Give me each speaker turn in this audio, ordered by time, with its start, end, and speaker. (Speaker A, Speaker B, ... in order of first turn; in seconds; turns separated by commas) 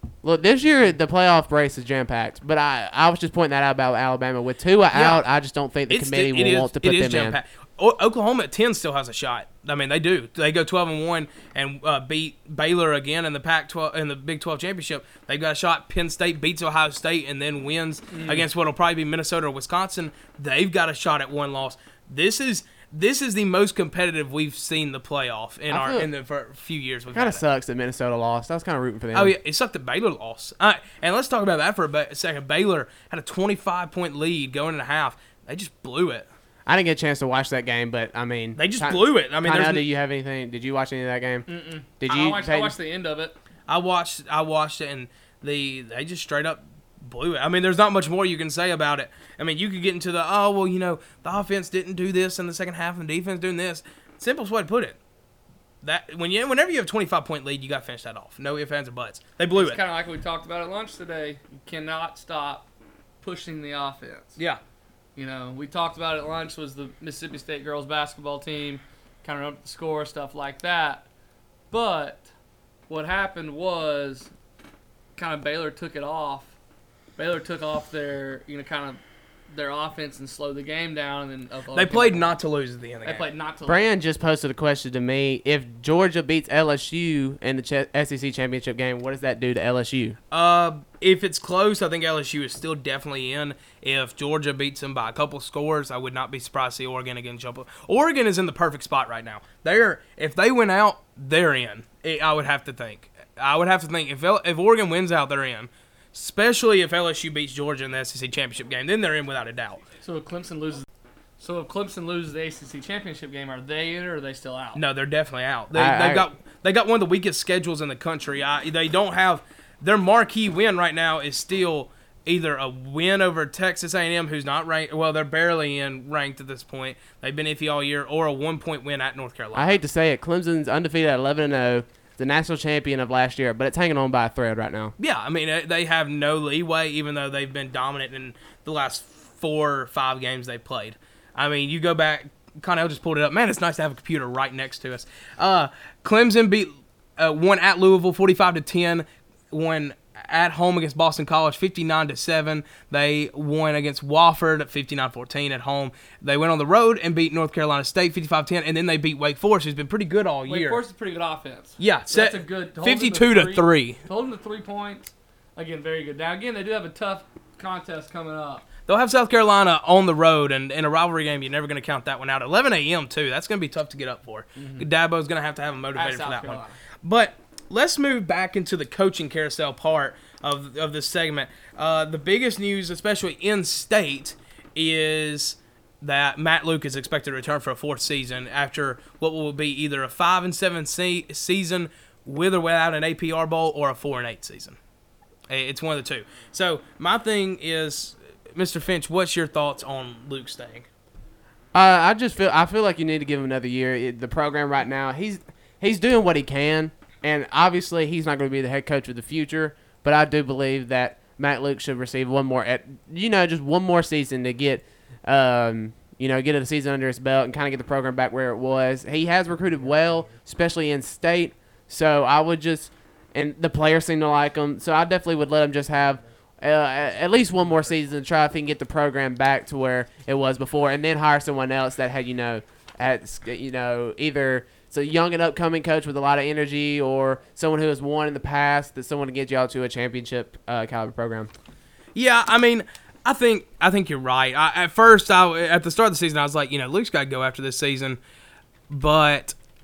Speaker A: 0.2-7.4, Speaker B: 4.9-5.2, Speaker B: 5.9-27.4, Speaker C: 18.1-18.4, Speaker A: 25.7-26.1, Speaker A: 27.1-29.4, Speaker B: 29.1-36.3, Speaker A: 36.6-41.5, Speaker B: 38.5-39.8, Speaker C: 41.5-43.4, Speaker A: 42.0-42.7, Speaker B: 43.7-55.0, Speaker B: 55.8-59.8, Speaker C: 59.5-62.7, Speaker C: 63.2-64.4, Speaker C: 65.2-71.0, Speaker C: 71.7-72.3, Speaker C: 72.9-74.3, Speaker C: 75.2-76.5, Speaker C: 77.2-82.3, Speaker B: 81.7-83.2, Speaker C: 83.0-83.8, Speaker A: 83.7-90.2, Speaker B: 90.3-109.8, Speaker C: 110.0-110.9, Speaker C: 111.4-114.8, Speaker B: 114.8-129.8, Speaker A: 115.7-116.2, Speaker A: 129.5-134.9, Speaker B: 135.0-160.8, Speaker C: 160.4-168.6, Speaker B: 161.8-164.0, Speaker B: 168.9-194.8, Speaker C: 174.6-174.9, Speaker C: 175.9-176.8, Speaker B: 195.5-200.9, Speaker A: 201.7-241.5, Speaker B: 242.1-248.2, Speaker B: 248.9-249.5